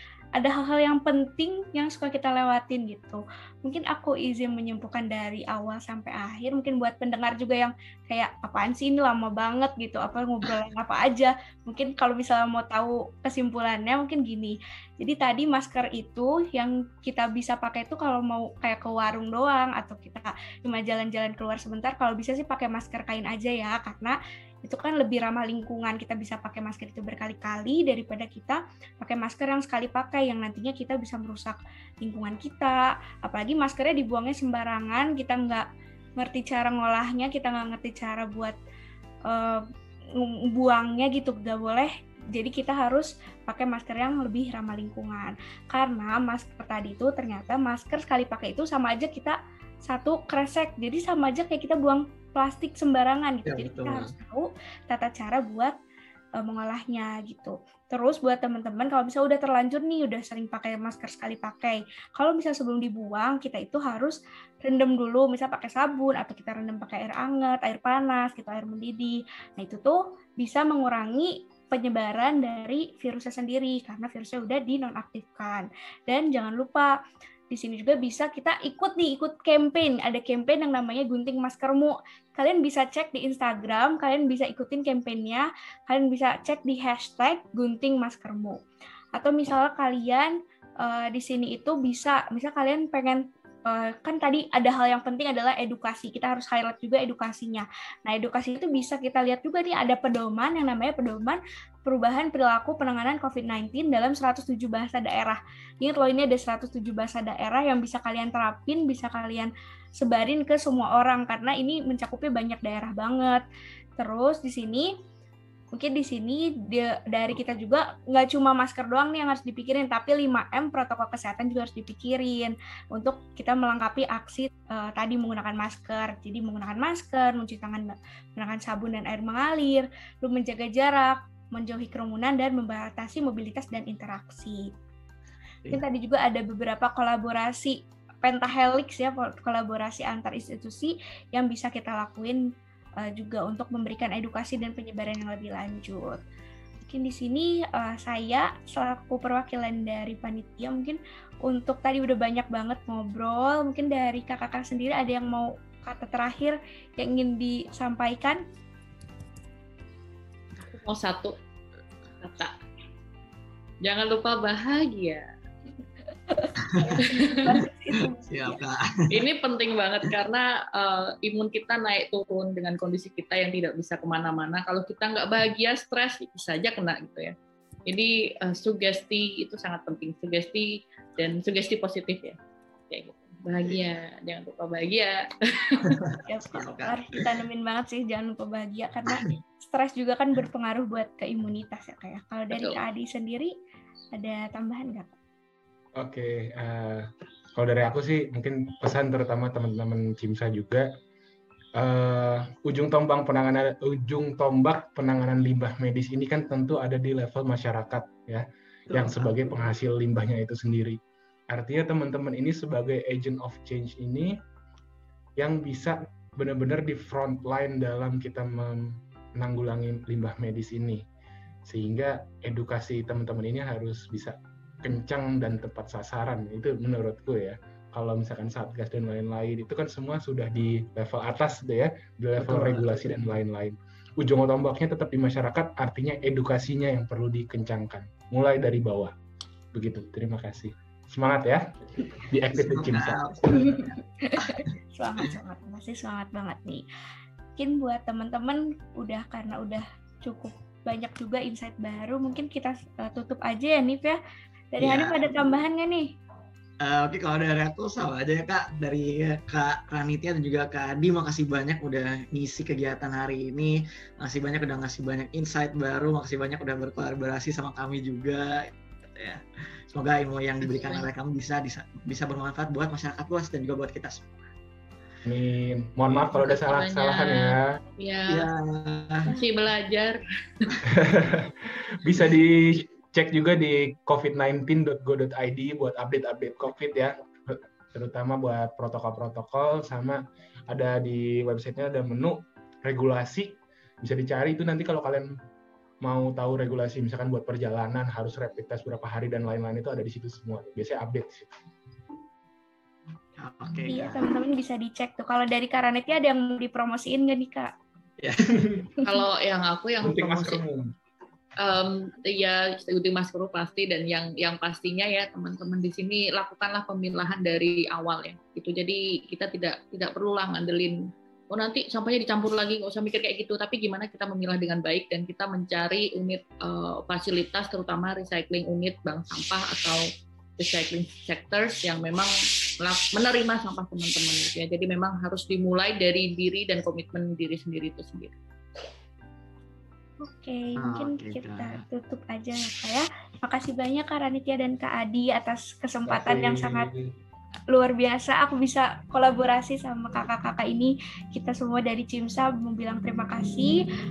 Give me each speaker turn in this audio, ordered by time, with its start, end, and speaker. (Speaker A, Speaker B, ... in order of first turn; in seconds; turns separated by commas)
Speaker A: 0.3-35.7, Speaker A: 36.2-38.6, Speaker A: 39.3-39.7, Speaker A: 40.2-55.8, Speaker B: 53.5-54.1, Speaker A: 56.4-77.0, Speaker A: 77.5-88.6, Speaker A: 89.2-113.4, Speaker A: 114.0-115.0, Speaker A: 115.7-134.7, Speaker A: 135.7-142.4, Speaker A: 143.0-146.2, Speaker A: 146.9-158.4, Speaker C: 160.6-161.3, Speaker C: 162.2-162.6, Speaker C: 163.8-165.3, Speaker A: 166.3-168.6, Speaker B: 166.6-167.0, Speaker C: 166.9-167.6, Speaker B: 167.5-169.2, Speaker C: 169.1-177.3, Speaker C: 177.9-182.4, Speaker C: 182.9-186.0, Speaker B: 185.8-187.4, Speaker A: 186.3-193.5, Speaker C: 192.5-192.8, Speaker A: 194.1-195.1, Speaker D: 196.0-200.9, Speaker D: 201.8-214.4, Speaker B: 208.9-209.3, Speaker D: 215.4-221.0, Speaker D: 221.7-239.1, Speaker B: 232.4-233.1, Speaker D: 239.7-243.7, Speaker B: 242.0-244.7, Speaker A: 243.5-246.8, Speaker A: 247.6-254.2, Speaker A: 254.7-256.1, Speaker B: 254.8-255.2, Speaker B: 256.8-274.3, Speaker C: 270.7-271.1, Speaker D: 275.2-277.8, Speaker C: 276.4-278.5, Speaker B: 278.3-279.3, Speaker C: 279.3-280.8, Speaker D: 280.9-295.4, Speaker D: 296.0-301.5, Speaker B: 303.4-304.2, Speaker A: 303.9-307.7, Speaker B: 308.2-308.5, Speaker D: 308.5-308.9, Speaker C: 309.0-310.6, Speaker D: 310.0-310.9, Speaker C: 311.6-330.1, Speaker C: 330.6-338.4, Speaker A: 340.2-346.9, Speaker B: 340.8-341.8, Speaker D: 346.1-347.1, Speaker A: 347.7-353.8